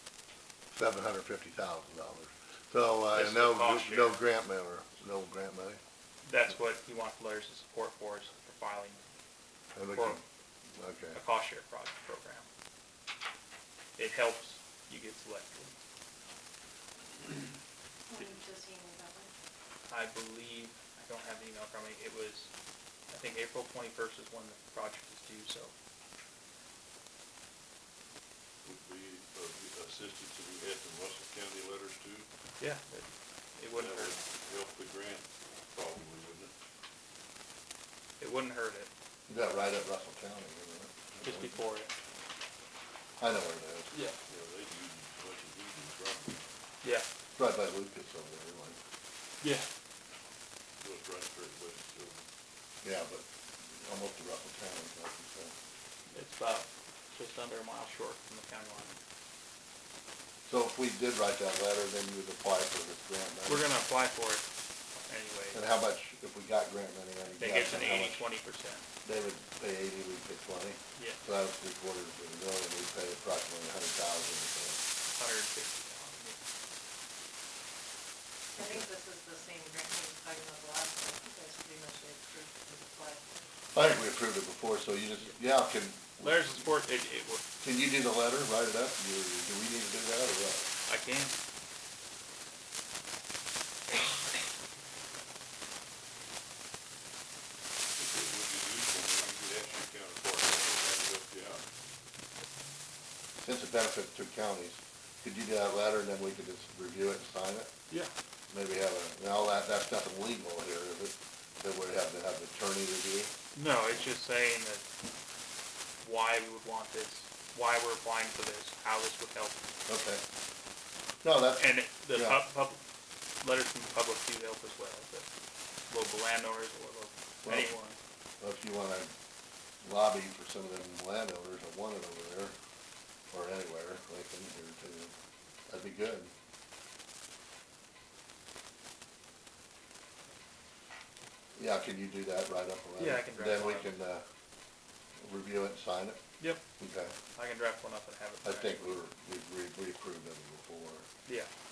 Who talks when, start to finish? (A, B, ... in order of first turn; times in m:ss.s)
0:00.7-0:05.8 A
0:03.1-0:04.2 B
0:06.2-0:09.0 B
0:09.7-0:10.2 A
0:09.9-0:10.2 B
0:10.7-0:11.2 A
0:11.1-0:12.5 B
0:14.0-0:15.8 B
0:18.1-0:19.3 C
0:19.9-0:22.5 B
0:23.1-0:25.7 B
0:28.6-0:32.3 D
0:32.6-0:34.2 B
0:33.7-0:36.5 D
0:38.2-0:38.9 B
0:39.3-0:41.6 A
0:41.2-0:41.9 B
0:43.2-0:43.9 A
0:43.9-0:44.2 B
0:44.3-0:46.4 D
0:47.4-0:48.8 A
0:49.4-0:49.7 B
0:50.8-0:52.2 D
0:52.8-0:55.5 A
0:56.1-0:59.0 B
1:00.4-1:03.7 A
1:03.5-1:05.6 B
1:05.5-1:08.3 A
1:07.4-1:08.8 B
1:09.0-1:14.8 A
1:15.1-1:16.4 B
1:18.5-1:23.5 C
1:18.6-1:18.8 A
1:23.7-1:26.7 A
1:26.2-1:27.4 B
1:27.6-1:30.7 A
1:30.9-1:31.4 B
1:38.0-1:41.6 D
1:43.4-1:47.7 A
1:48.5-1:53.3 A
1:53.5-1:54.8 B
1:56.0-1:59.6 B
1:59.9-2:00.2 A
2:01.2-2:02.4 A
2:01.6-2:02.8 B
2:03.4-2:05.3 B
2:05.9-2:08.0 B
2:07.4-2:07.7 A
2:08.4-2:09.1 A
2:09.8-2:12.6 A
2:13.3-2:15.1 A
2:15.7-2:16.3 A
2:21.5-2:24.2 A
2:23.0-2:23.9 B
2:25.2-2:26.2 A
2:26.8-2:27.1 A
2:27.3-2:29.0 B
2:28.4-2:31.1 A
2:31.2-2:31.5 B